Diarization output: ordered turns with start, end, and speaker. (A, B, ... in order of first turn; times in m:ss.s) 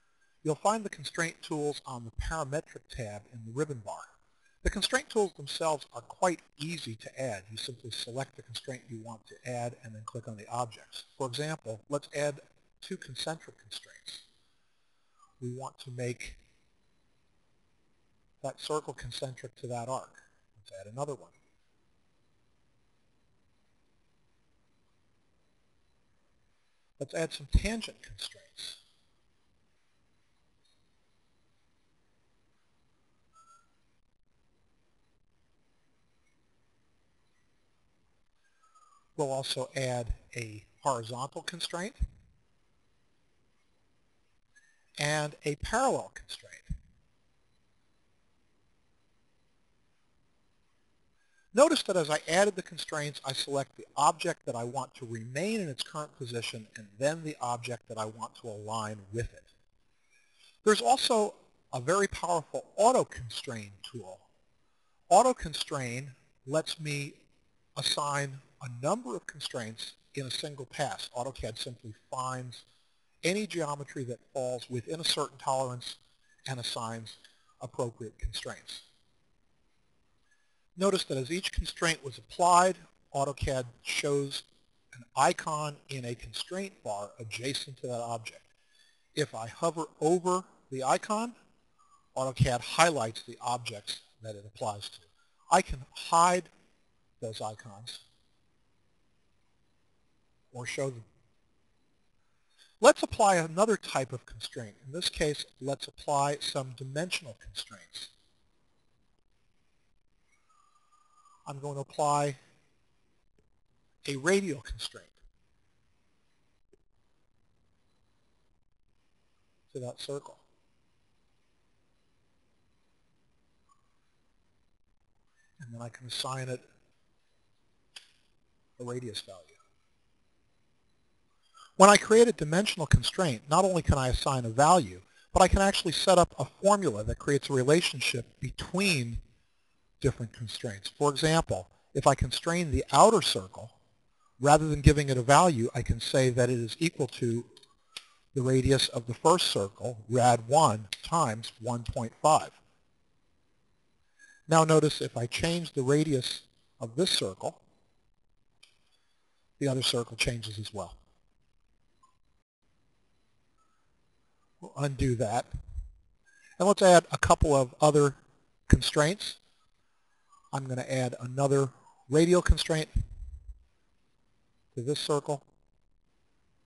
0:00.4-0:04.1 A
0:04.6-0:14.2 A
0:15.4-0:16.4 A
0:18.4-0:21.3 A
0:27.0-0:28.8 A
0:39.2-0:42.0 A
0:45.0-0:46.7 A
0:51.5-0:59.5 A
1:00.6-1:04.2 A
1:05.1-1:07.2 A
1:07.8-1:12.6 A
1:13.2-1:18.8 A
1:20.8-1:28.5 A
1:29.1-1:31.3 A
1:32.1-1:36.5 A
1:37.2-1:38.0 A
1:40.5-1:41.0 A
1:42.8-1:48.1 A
1:51.4-1:52.4 A
1:54.0-1:55.2 A
1:59.7-2:00.4 A
2:05.6-2:06.6 A
2:08.8-2:09.6 A
2:11.8-2:19.2 A
2:20.0-2:23.7 A
2:24.4-2:27.5 A
2:28.3-2:32.6 A
2:34.5-2:37.6 A
2:39.6-2:41.0 A
2:44.6-2:45.5 A
2:46.6-2:49.4 A
2:50.5-2:52.9 A
2:54.7-2:55.4 A